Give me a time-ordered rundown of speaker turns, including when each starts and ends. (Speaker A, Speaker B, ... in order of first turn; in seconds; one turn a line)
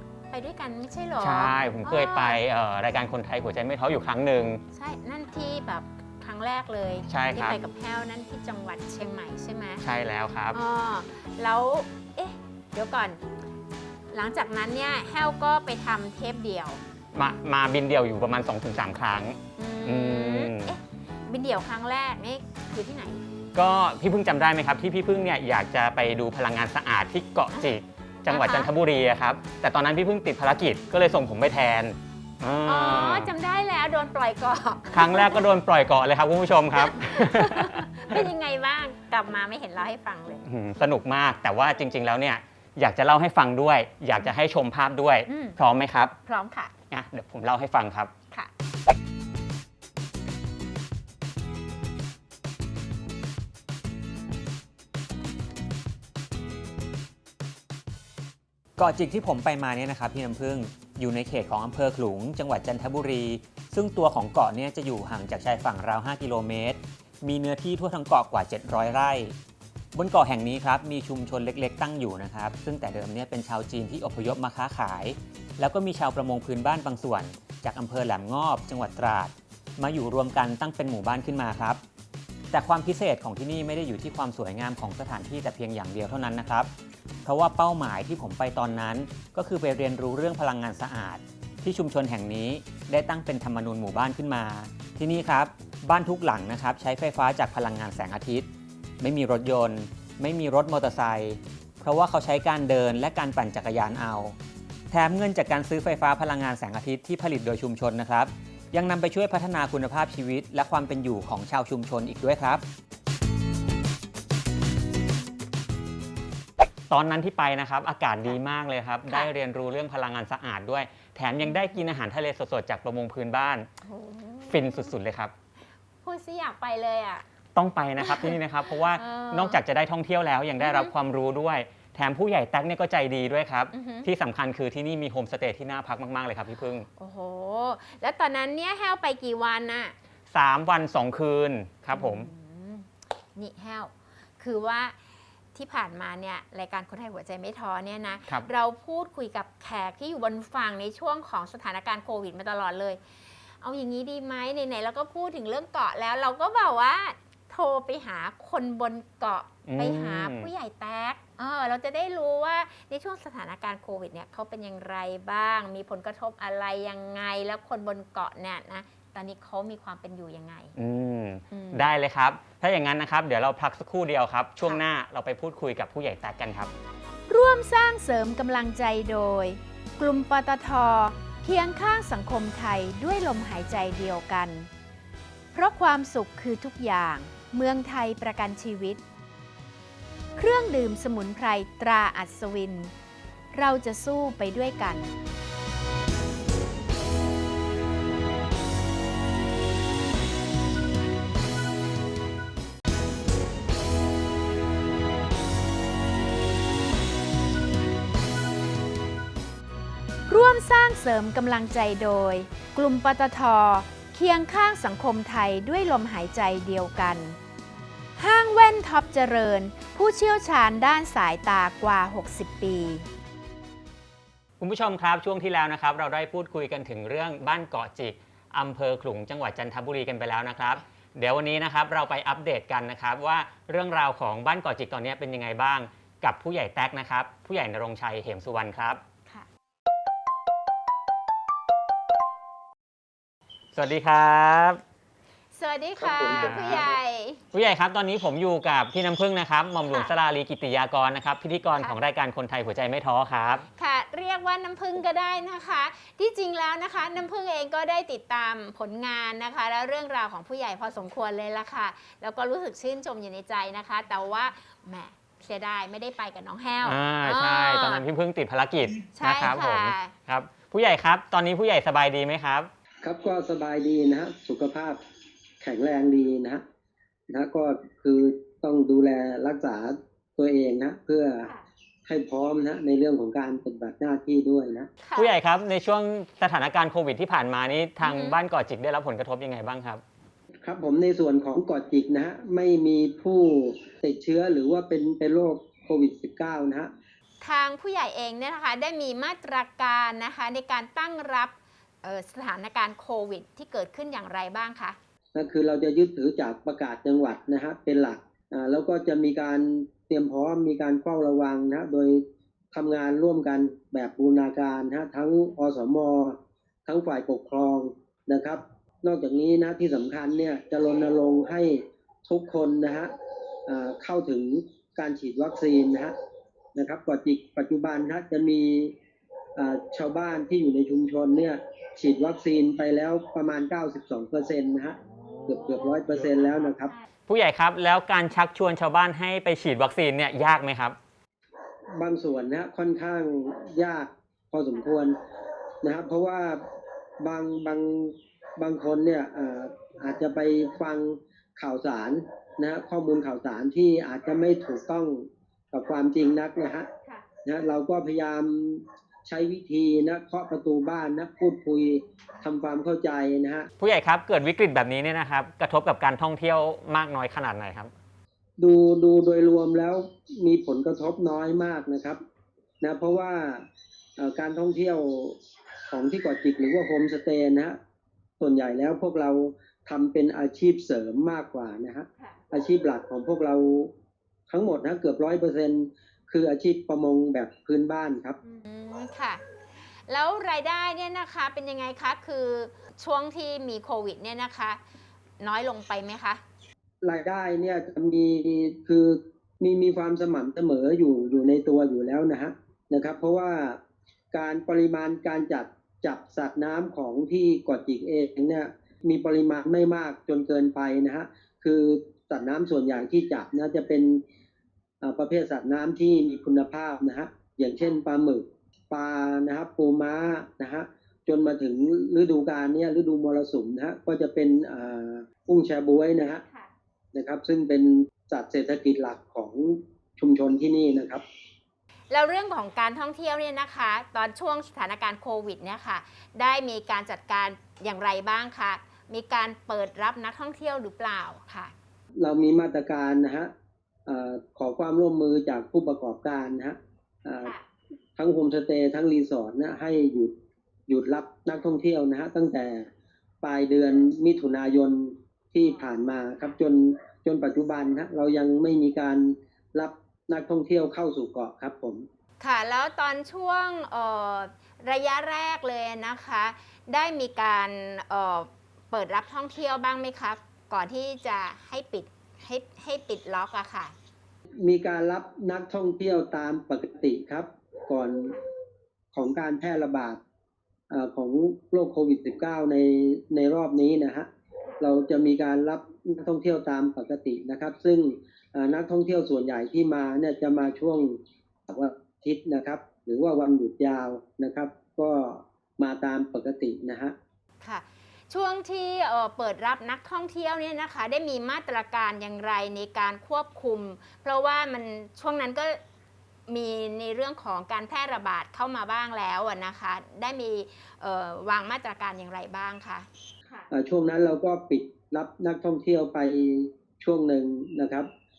Speaker A: 0.3-2.4
Speaker B: 1.2-4.6
Speaker A: 4.7-9.8
Speaker B: 7.1-7.6
Speaker B: 9.8-10.6
Speaker A: 10.5-13.2
Speaker A: 14.1-16.8
Speaker B: 17.1-20.7
Speaker A: 19.6-23.2
Speaker B: 23.5-33.3
Speaker A: 28.3-28.7
Speaker A: 32.6-35.5
Speaker B: 34.9-38.2
Speaker A: 36.8-40.4
Speaker B: 40.4-46.1
Speaker A: 45.3-45.6
Speaker A: 46.2-46.7
Speaker B: 46.9-48.1
Speaker B: 58.8-69.3
Speaker B: 69.9-81.8
Speaker B: 82.5-86.7
Speaker B: 87.2-98.5
Speaker B: 99.0-104.3
Speaker B: 104.9-112.6
Speaker B: 116.9-123.7
Speaker A: 123.8-124.9
Speaker B: 124.5-125.3
Speaker A: 126.0-127.2
Speaker B: 127.5-136.8
Speaker A: 128.0-128.3
Speaker A: 128.9-129.6
Speaker A: 130.6-130.9
Speaker A: 133.7-134.1
Speaker A: 137.0-139.9
Speaker B: 140.3-142.3
Speaker A: 141.9-145.0
Speaker A: 145.5-153.0
Speaker A: 153.6-170.7
Speaker B: 159.7-160.5
Speaker B: 170.8-176.7
Speaker A: 171.5-171.9
Speaker A: 177.3-184.7
Speaker A: 185.5-189.0
Speaker A: 190.3-192.9
Speaker A: 193.5-195.1
Speaker A: 210.3-217.4
Speaker A: 218.2-223.1
Speaker B: 224.6-239.0
Speaker B: 243.7-244.8
Speaker A: 245.5-247.4
Speaker C: 246.0-246.7
Speaker B: 246.2-246.9
Speaker B: 247.5-253.6
Speaker A: 253.7-268.0
Speaker B: 266.8-272.7
Speaker A: 269.1-270.1
Speaker C: 273.0-275.0
Speaker C: 275.6-276.6
Speaker C: 277.3-281.5
Speaker C: 282.1-284.9
Speaker A: 285.0-285.3
Speaker B: 285.1-290.0
Speaker A: 288.0-288.4
Speaker C: 290.6-296.9
Speaker A: 297.4-305.0
Speaker C: 305.3-323.1
Speaker C: 323.6-326.1
Speaker C: 326.7-328.9
Speaker C: 329.6-336.9
Speaker B: 337.3-340.9
Speaker C: 341.9-345.2
Speaker C: 345.8-346.6
Speaker C: 347.2-356.9
Speaker C: 357.4-363.7
Speaker B: 363.8-367.9
Speaker C: 368.6-372.2
Speaker C: 372.8-373.6
Speaker C: 374.2-377.8
Speaker C: 378.4-383.9
Speaker C: 384.5-388.4
Speaker A: 388.5-389.4
Speaker A: 390.1-394.8
Speaker A: 395.4-396.4
Speaker C: 397.0-403.8
Speaker C: 404.3-414.2
Speaker C: 415.0-426.4
Speaker C: 427.1-431.2
Speaker A: 432.1-441.7
Speaker C: 442.2-443.5
Speaker C: 444.1-447.5
Speaker C: 448.2-450.3
Speaker C: 450.9-452.9
Speaker C: 453.4-462.1
Speaker A: 462.4-473.9
Speaker C: 474.6-478.4
Speaker C: 479.1-480.2
Speaker C: 480.9-497.1
Speaker A: 497.6-505.8
Speaker A: 506.5-513.0
Speaker C: 513.7-518.1